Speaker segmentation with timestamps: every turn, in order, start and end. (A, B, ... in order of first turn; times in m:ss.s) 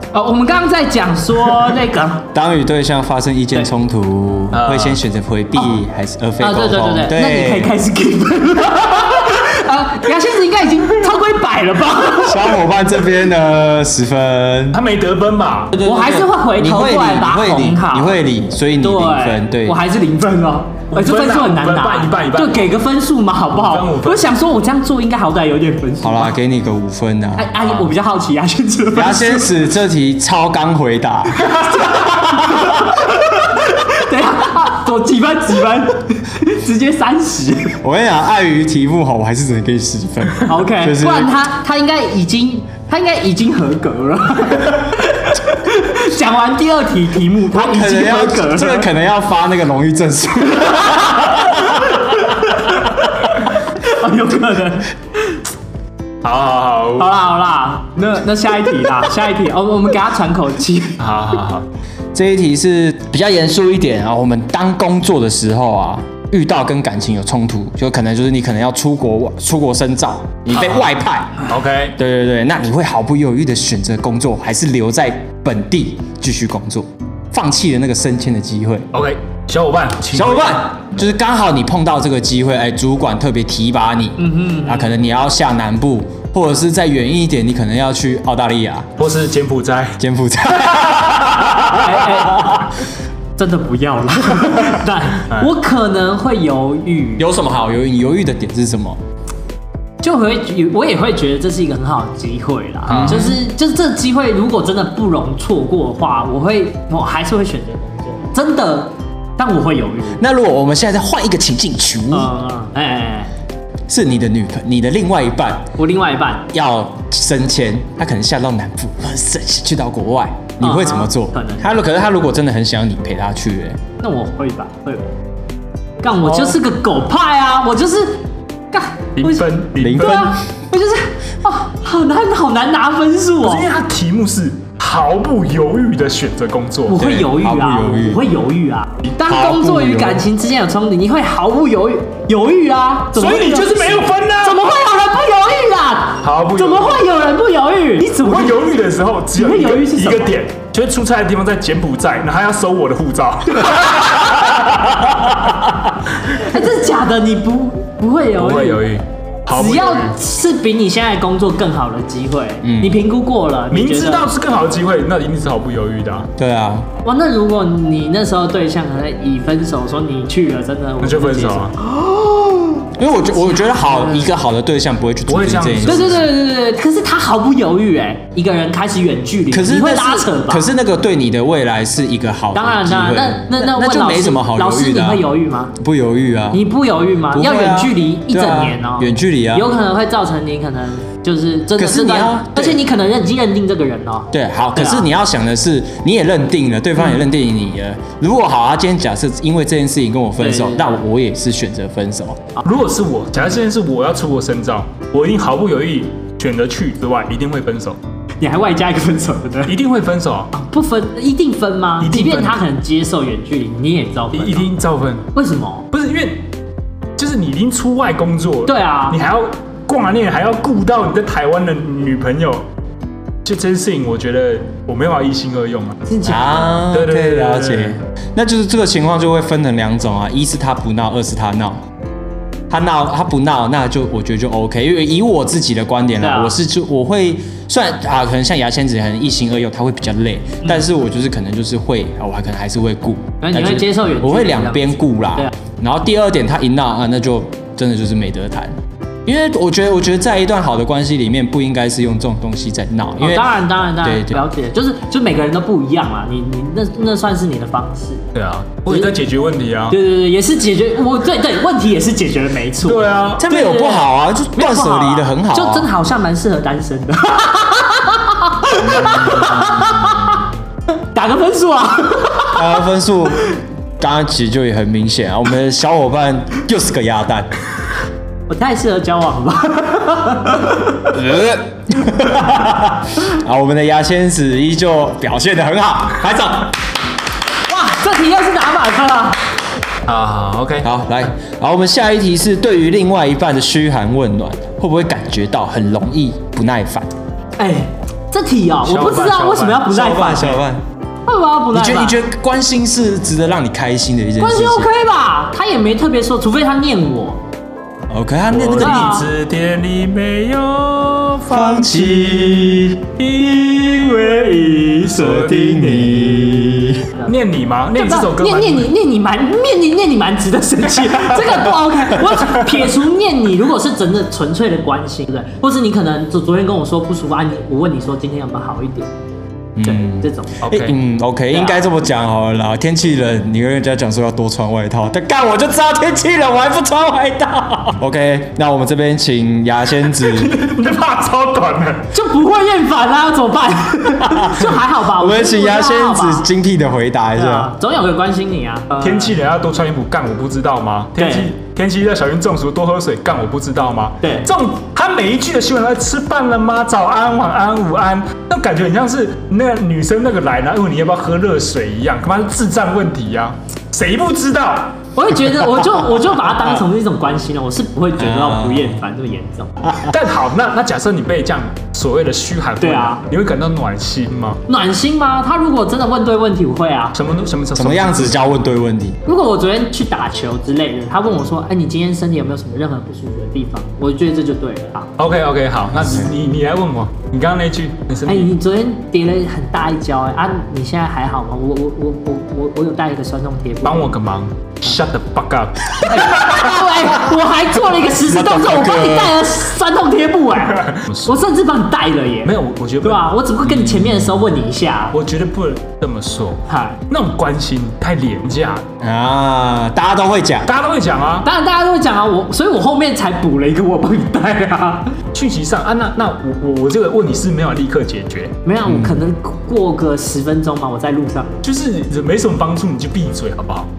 0:00.1-0:02.2 A
0:02.3-0:07.8 B
0:04.5-0:05.0 C
0:06.4-0:12.6 A
0:12.2-0:14.8 B
0:14.7-0:15.8 C
0:15.7-0:19.8 B
0:15.8-0:18.2 A
0:18.8-0:26.4 A
0:20.9-0:22.8 C
0:23.5-0:24.3 C
0:26.0-0:27.9 B
0:27.4-0:29.5 A
0:28.9-0:31.5 B
0:31.4-0:37.8 A
0:32.1-0:33.0 B
0:37.8-0:41.3 B
0:40.4-0:48.9 A
0:47.5-0:52.3 B
0:50.8-0:55.4 A
0:56.2-0:57.1 C
0:57.0-1:01.0 A
1:01.0-1:01.6 C
1:02.1-1:11.4 B
1:10.6-1:10.9 C
1:11.4-1:12.0 C
1:12.0-1:18.9 B
1:18.9-1:20.6 C
1:20.1-1:28.9 B
1:24.2-1:24.9 A
1:29.0-1:30.0 C
1:30.0-1:32.7 B
1:31.7-1:32.6 A
1:33.4-1:37.3 A
1:37.2-1:39.0 B
1:40.0-1:50.2 A
1:42.9-1:43.4 C
1:42.9-1:43.4 B
1:50.2-1:52.3 B
1:52.1-1:53.3 A
1:53.9-1:55.7 B
1:55.8-1:56.5 A
1:56.5-2:03.8 B
2:00.6-2:01.8 A
2:04.0-2:05.1 A
2:06.0-2:13.7 A
2:06.3-2:06.6 C
2:09.2-2:10.3 C
2:09.8-2:10.3 B
2:13.4-2:17.3 C
2:16.9-2:28.6 A
2:17.0-2:18.2 B
2:19.2-2:20.3 B
2:23.1-2:24.6 C
2:26.2-2:27.1 C
2:28.2-2:35.5 C
2:29.4-2:30.4 A
2:36.2-2:38.9 A
2:38.4-2:40.2 C
2:39.5-2:44.3 A
2:42.6-2:43.0 B
2:43.7-2:46.3 C
2:46.4-2:46.9 B
2:47.0-2:52.8 A
2:51.0-2:51.8 C
2:53.0-2:56.3 B
2:53.4-2:54.3 A
2:55.3-2:56.3 C
2:55.9-3:00.7 A
2:59.5-3:06.6 B
3:02.5-3:05.7 A
3:06.5-3:15.1 A
3:07.3-3:09.7 B
3:11.8-3:12.8 B
3:14.3-3:22.4 B
3:20.4-3:21.0 A
3:22.6-3:28.0 C
3:28.4-3:29.8 A
3:29.7-3:30.5 C
3:30.5-3:34.7 A
3:32.0-3:32.6 C
3:34.3-3:35.3 C
3:35.3-3:35.8 A
3:35.9-3:36.4 C
3:37.2-3:42.6 C
3:38.7-3:39.2 A
3:43.4-3:46.0 C
3:46.1-3:46.9 A
3:46.2-3:51.8 B
3:46.8-3:48.0 C
3:52.7-4:08.8 B
3:56.2-3:56.6 A
4:03.4-4:05.5 A
4:09.3-4:14.4 B
4:13.2-4:18.2 A
4:18.3-4:20.0 C
4:19.9-4:30.5 A
4:22.8-4:23.4 C
4:23.4-4:25.9 B
4:28.8-4:30.2 B
4:31.1-4:32.6 A
4:32.5-4:37.5 B
4:38.5-4:41.1 A
4:41.1-4:46.8 B
4:47.7-4:49.4 A
4:50.1-4:50.9 C
4:50.8-4:57.1 B
4:57.6-5:00.6 A
4:58.8-4:59.9 C
4:59.9-5:00.8 B
5:01.3-5:02.2 A
5:01.7-5:04.9 B
5:04.4-5:07.4 A
5:08.1-5:09.2 B
5:08.5-5:18.9 C
5:08.8-5:09.3 A
5:11.5-5:13.0 B
5:15.1-5:17.1 B
5:18.0-5:29.1 A
5:29.8-5:40.6 B
5:29.8-5:30.6 A
5:30.6-5:31.0 C
5:31.5-5:31.8 A
5:40.2-5:42.1 C
5:42.1-5:46.5 A
5:44.2-5:47.7 B
5:47.4-5:49.4 A
5:49.0-6:05.0 C
5:51.2-5:51.5 A
5:54.2-5:54.5 A
6:05.2-6:09.7 A
6:08.2-6:09.0 B
6:09.8-6:10.1 B
6:10.0-6:14.6 C
6:12.8-6:13.2 A
6:14.7-6:17.2 A
6:17.1-6:18.5 C
6:17.8-6:19.2 B
6:19.3-6:25.1 A
6:25.2-6:28.5 C
6:26.0-6:26.3 B
6:28.3-6:34.1 A
6:33.8-6:36.0 C
6:36.0-6:45.2 A
6:38.1-6:39.5 B
6:40.8-6:41.3 C
6:42.4-6:44.0 C
6:45.1-6:48.8 C
6:46.7-6:47.0 A
6:49.0-6:50.7 B
6:50.7-6:51.5 C
6:51.4-6:55.2 A
6:55.3-6:58.6 C
6:58.6-7:01.6 A
6:58.8-6:59.2 B
7:01.6-7:03.9 C